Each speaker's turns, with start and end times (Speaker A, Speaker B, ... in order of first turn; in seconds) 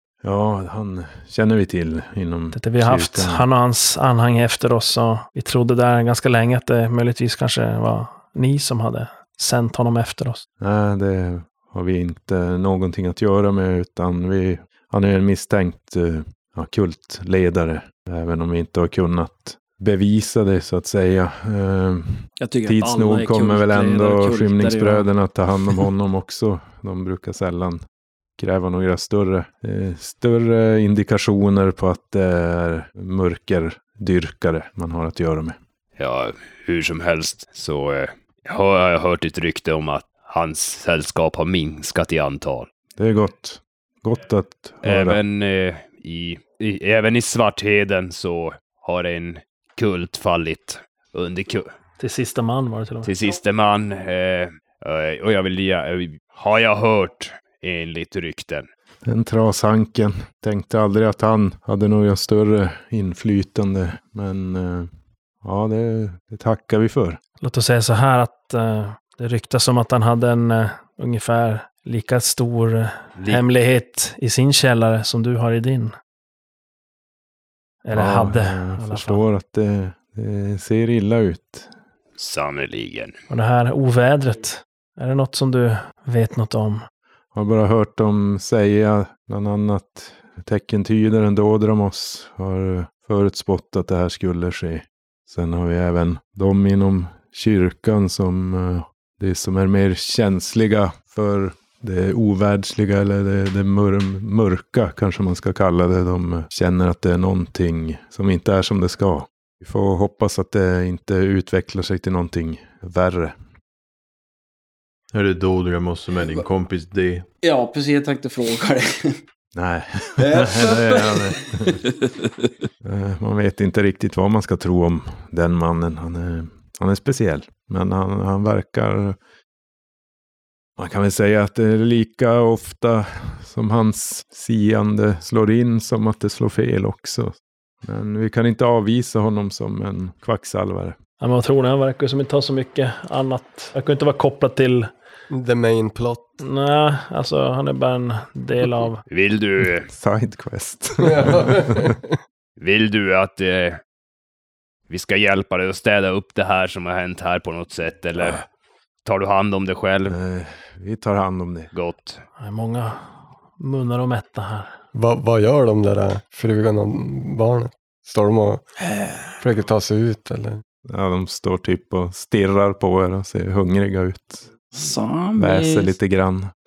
Speaker A: 0.2-3.5, 10.6-27.8, 28.4-35.6, 43.0-45.2, 59.0-64.9, 65.4-67.2, 77.9-81.7, 87.3-113.4, 119.5-121.8, 122.8-129.2, 130.8-141.0, 149.9-152.0, 160.1-161.7, 170.8-174.5, 175.3-176.5
Speaker B: 2.5-10.4, 52.0-53.1, 67.4-75.9, 77.8-79.2, 83.3-86.8, 141.2-144.9, 146.4-149.0, 162.4-164.7
Speaker C: 22.4-25.1, 117.4-119.2, 120.2-122.1, 174.7-175.9
Speaker D: 36.0-42.7, 44.8-51.7, 53.0-58.7, 82.2-83.2, 149.1-149.9, 152.6-153.8, 154.9-158.4, 159.1-160.2, 161.7-162.2
Speaker E: 115.1-117.3
Speaker F: 145.3-146.4, 151.0-152.1, 164.9-168.7, 169.4-170.6